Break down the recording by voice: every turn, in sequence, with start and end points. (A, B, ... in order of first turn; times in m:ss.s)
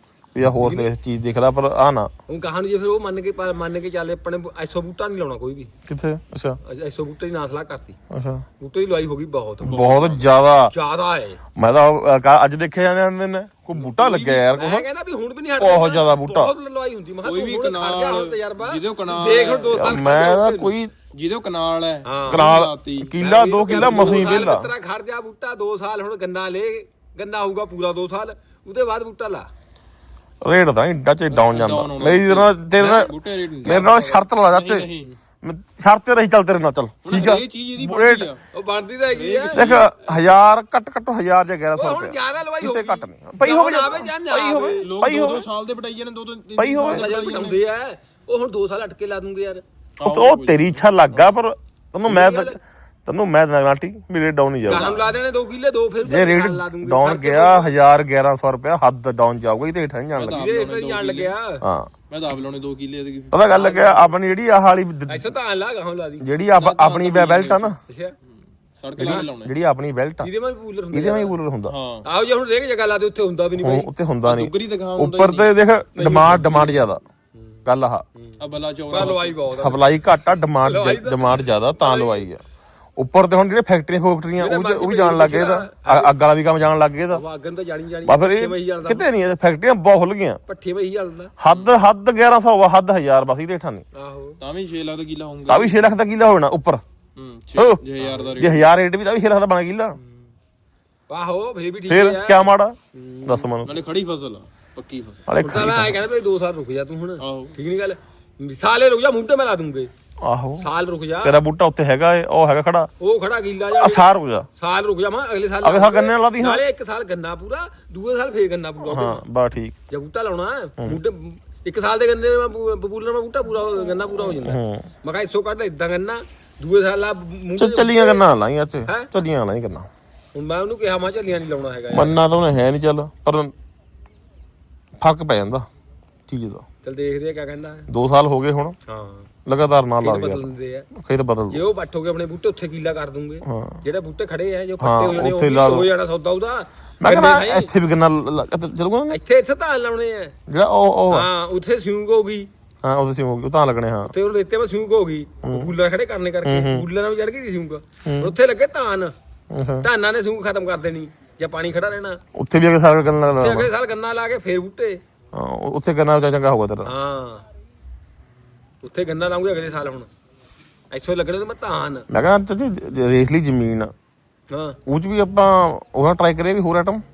0:00.4-0:02.1 A
0:00.6-0:00.9 B
0:02.3-0:05.7 B
0:05.9-0:06.6 A
0:06.6-0:08.0 B
0:08.1-0:08.4 A
0:08.6-0:09.9 B
0:09.6-0:10.7 A
0:09.6-0:10.3 C
0:10.7-0:11.4 B
0:11.6-0:14.9 A
0:13.8-0:14.4 C
0:14.4-0:20.8 B
0:15.6-0:16.5 A
0:17.2-0:19.8 C
0:19.7-0:20.9 A
0:21.1-0:24.4 C
0:22.0-0:22.4 B
0:22.3-0:24.7 A
0:23.2-0:29.5 B
0:30.4-0:38.3 A
0:31.4-0:35.1 C
0:37.0-0:38.4 C
0:38.5-0:40.3 B
0:39.1-0:39.9 C
0:39.5-0:45.5 A
0:41.7-0:45.1 B
0:44.8-0:47.6 C
0:46.6-0:47.1 A
0:46.9-0:49.6 B
0:50.0-0:51.3 C
0:50.0-0:54.9 A
0:52.0-0:52.6 B
0:54.6-0:57.7 B
0:54.8-0:55.2 C
0:56.0-1:00.4 A
1:00.2-1:01.6 B
1:00.2-1:01.3 C
1:01.6-1:01.9 A
1:02.1-1:03.4 C
1:03.3-1:05.4 A
1:03.4-1:04.2 B
1:05.1-1:06.4 B
1:06.2-1:07.8 A
1:06.5-1:07.8 C
1:07.8-1:08.2 B
1:08.8-1:09.5 C
1:09.0-1:10.3 A
1:09.0-1:09.3 B
1:10.2-1:11.4 B
1:10.9-1:11.8 A
1:11.7-1:12.1 C
1:12.0-1:13.9 B
1:13.6-1:17.0 A
1:14.2-1:16.9 C
1:16.0-1:16.2 B
1:17.7-1:18.0 A
1:18.2-1:19.8 B
1:18.4-1:19.5 C
1:18.9-1:22.4 A
1:20.6-1:22.3 B
1:23.0-1:27.2 A
1:24.4-1:26.2 B
1:27.1-1:29.1 B
1:28.0-1:30.4 A
1:30.5-1:31.5 B
1:31.4-1:33.8 A
1:33.9-1:34.4 B
1:34.4-1:35.8 C
1:35.5-1:36.8 A
1:37.2-1:38.6 C
1:37.6-1:37.8 A
1:38.0-1:38.3 B
1:38.3-1:40.0 A
1:41.1-1:43.5 B
1:41.9-1:43.8 A
1:43.6-1:45.2 C
1:45.3-1:46.0 A
1:45.3-1:49.9 B
1:47.2-1:47.6 C
1:50.2-1:50.7 A
1:50.6-1:51.4 B
1:51.2-1:52.9 A
1:53.0-1:59.2 B
1:53.7-1:54.5 A
1:55.6-1:56.6 A
1:58.8-1:59.8 A
1:59.9-2:08.2 B
2:04.4-2:04.9 A
2:07.6-2:09.9 A
2:08.9-2:09.1 B
2:10.3-2:12.2 B
2:11.9-2:13.5 A
2:15.0-2:15.7 A
2:16.3-2:16.6 A
2:16.8-2:17.9 B
2:17.9-2:18.8 A
2:18.8-2:19.3 B
2:19.5-2:21.6 A
2:20.0-2:20.9 B
2:21.5-2:27.7 B
2:23.4-2:23.8 A
2:24.8-2:25.9 A
2:27.0-2:29.2 A
2:29.1-2:30.4 B
2:30.5-2:31.3 A
2:31.1-2:32.5 B
2:32.8-2:34.1 A
2:34.0-2:39.1 B
2:35.4-2:35.7 A
2:36.4-2:36.9 A
2:38.0-2:38.4 A
2:39.5-2:39.9 A
2:39.8-2:42.2 B
2:42.4-2:43.7 A
2:43.4-2:45.0 B
2:45.3-2:46.9 A
2:46.8-2:47.5 B
2:48.8-2:50.1 B
2:50.9-2:52.1 B
2:52.1-2:53.9 A
2:54.5-2:54.8 B
2:54.9-2:57.0 A